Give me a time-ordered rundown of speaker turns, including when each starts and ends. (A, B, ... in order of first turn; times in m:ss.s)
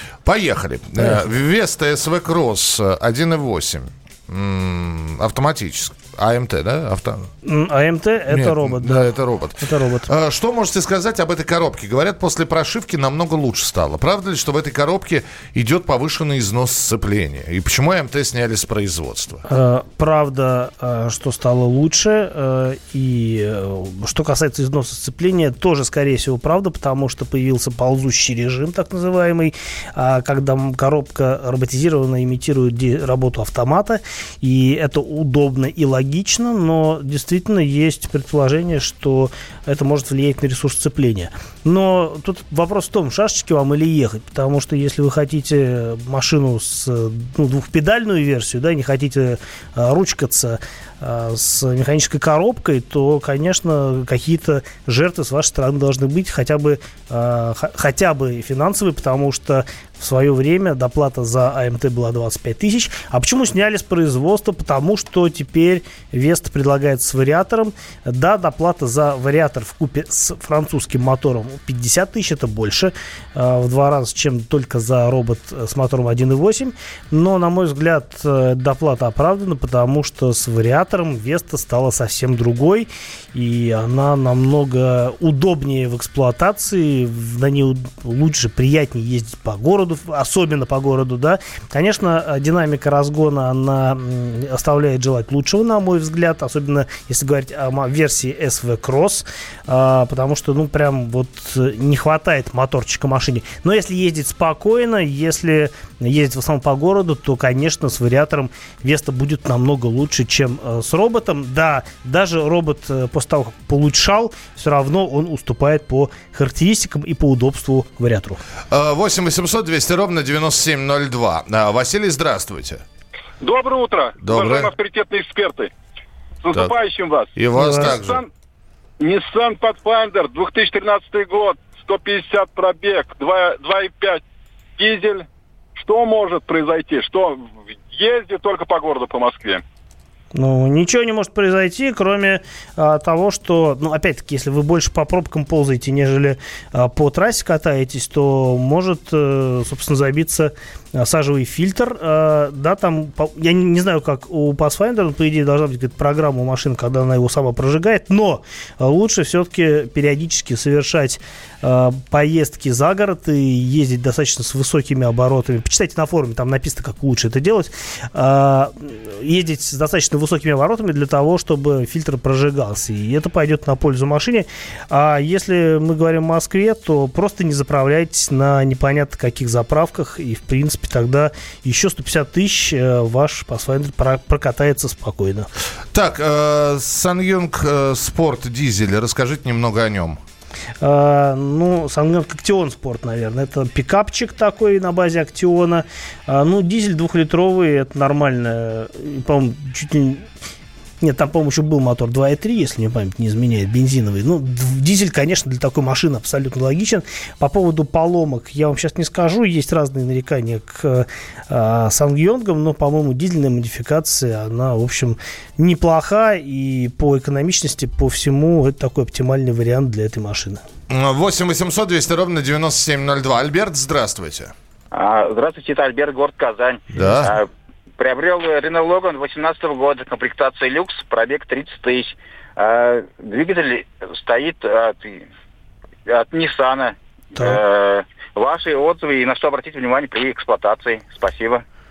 0:00.2-0:07.3 A
0:07.4-0:10.1 B
0:08.3-0:19.4 A
0:19.5-1:58.4 B
1:58.7-2:02.8 A
2:03.4-2:05.7 C
2:04.2-2:04.7 A
2:06.4-2:08.3 C
2:07.4-2:08.2 A
2:07.6-2:08.0 B
2:09.0-2:14.2 C
2:14.8-2:19.6 C
2:20.4-3:05.5 B
3:05.9-3:10.2 A
3:10.8-3:20.2 B
3:21.0-3:40.6 B
3:40.9-3:44.5 A
3:44.9-3:47.5 D
3:47.0-3:47.3 A
3:47.0-3:47.2 B
3:48.0-3:55.3 D
3:56.1-4:01.6 D